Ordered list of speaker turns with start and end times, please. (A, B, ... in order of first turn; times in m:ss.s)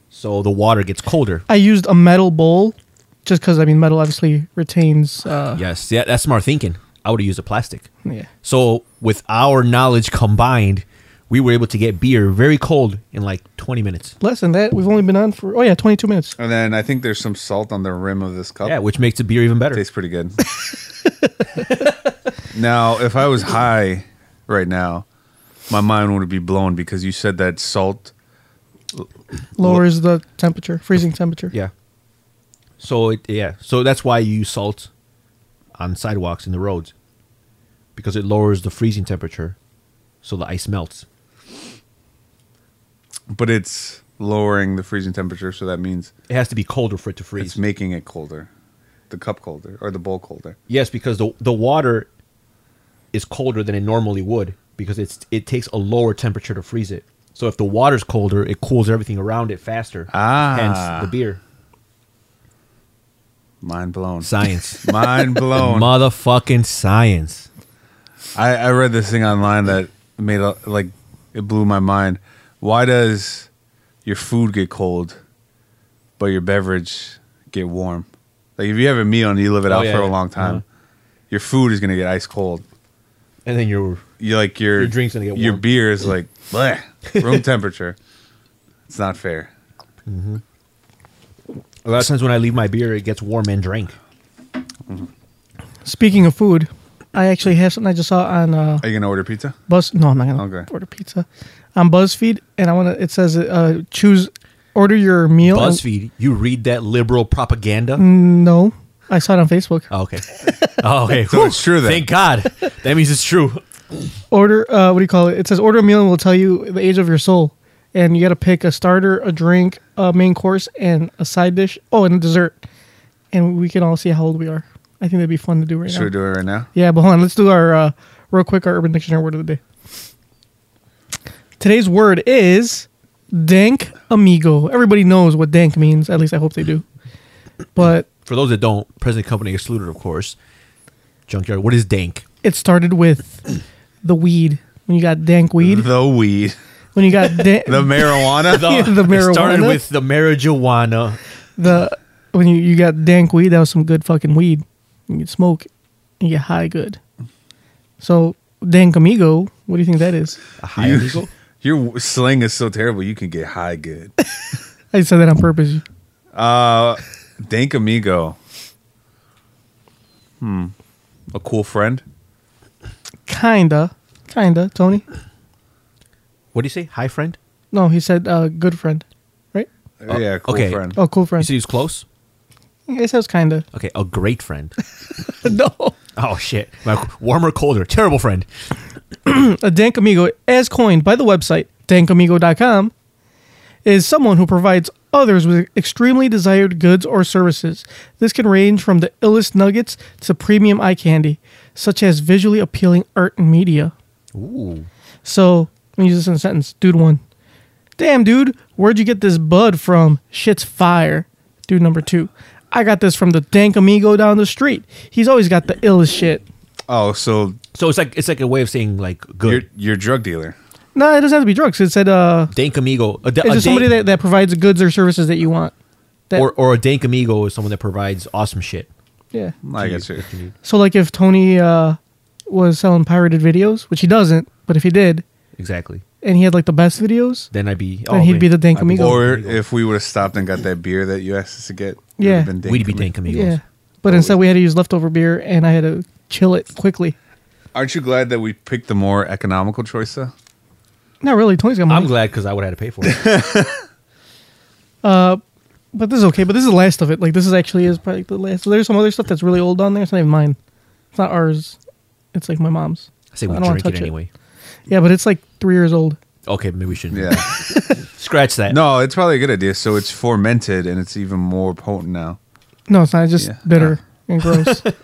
0:00.1-0:01.4 A
0:01.5-0:05.6 B
0:05.5-0:07.9 A
0:08.4-0:14.2 A
0:14.2-0:16.4 B
0:16.4-0:18.8 C
0:18.6-0:19.8 A
0:19.7-0:20.4 C
0:22.5-0:25.1 C
0:25.7-0:28.1 C
0:29.6-0:31.5 B
0:32.8-0:34.9 A
0:35.8-0:36.9 A
0:38.0-0:39.6 A
0:40.2-0:41.0 A
0:43.3-0:46.1 C
0:46.3-0:47.6 A
0:47.4-0:48.5 C
0:49.1-0:50.6 C
0:50.7-0:52.1 A
0:53.1-1:01.4 A
1:00.1-1:01.1 C
1:03.6-1:05.9 C
1:04.2-1:07.5 A
1:08.4-1:13.5 C
1:14.0-1:15.2 C
1:16.2-1:20.6 C
1:19.7-1:20.6 A
1:21.3-1:22.6 C
1:23.4-1:24.0 A
1:24.2-1:28.0 C
1:24.8-1:25.6 A
1:27.1-1:27.4 A
1:28.9-1:29.5 C
1:30.1-1:30.4 A
1:31.8-1:34.0 A
1:35.8-1:38.9 B
1:38.8-1:39.6 C
1:39.7-1:45.8 B
1:40.4-1:40.7 C
1:45.4-1:48.0 A
1:48.0-1:49.9 B
1:49.9-1:53.6 A
1:51.2-1:52.1 C
1:54.3-2:02.6 B
2:03.3-2:06.1 B
2:05.9-2:06.7 C
2:06.7-2:09.6 B
2:11.6-2:16.8 B
2:17.8-2:18.1 B
2:18.3-2:20.4 A
2:21.3-2:22.2 A
2:22.4-2:23.5 B
2:24.0-2:25.9 B
2:25.6-2:26.6 C
2:27.0-2:29.8 B
2:27.6-2:28.8 C
2:28.5-2:31.2 A
2:31.6-2:35.7 B
2:36.2-2:37.0 B
2:38.0-2:40.4 B
2:40.6-2:41.3 A
2:40.8-2:44.1 C
2:44.9-2:45.8 B
2:46.4-2:48.4 C
2:50.4-2:50.7 C
2:51.3-2:52.0 C
2:53.3-2:55.0 B
2:56.5-2:57.4 A
2:57.7-2:59.7 B
3:00.0-3:01.0 C
3:00.1-3:02.0 A
3:01.0-3:01.5 B
3:02.9-3:03.6 B
3:03.7-3:04.7 A
3:05.3-3:06.0 B
3:06.2-3:08.5 A
3:09.3-3:12.9 B
3:13.8-3:23.9 B
3:24.4-3:24.9 A
3:25.2-3:27.2 B
3:28.0-3:36.4 B
3:36.9-3:37.6 C
3:37.7-3:39.6 A
3:39.4-3:40.6 C
3:41.0-3:42.5 B
3:42.5-3:43.9 A
3:43.4-3:45.7 B
3:46.4-3:48.9 A
3:49.6-3:50.2 C
3:49.8-3:50.5 A
3:50.6-3:55.2 B
3:55.6-3:56.0 A
3:56.2-3:57.5 B
3:57.5-3:59.6 A
3:58.1-3:59.3 B
3:58.9-4:03.1 C
4:02.2-4:02.5 B
4:02.6-4:03.6 A
4:03.3-4:07.2 B
4:04.1-4:04.4 C
4:07.7-4:10.3 C
4:11.2-4:12.1 B
4:11.9-4:13.2 A
4:13.0-4:13.8 C
4:15.0-4:15.4 B
4:15.9-4:20.6 B
4:21.1-4:21.8 B
4:22.3-4:24.1 B
4:23.3-4:24.3 A
4:24.9-4:26.2 B
4:26.5-4:28.8 A
4:27.1-4:27.7 C
4:28.7-4:32.4 C
4:32.9-4:34.8 B
4:33.4-4:34.0 C
4:34.5-4:35.0 A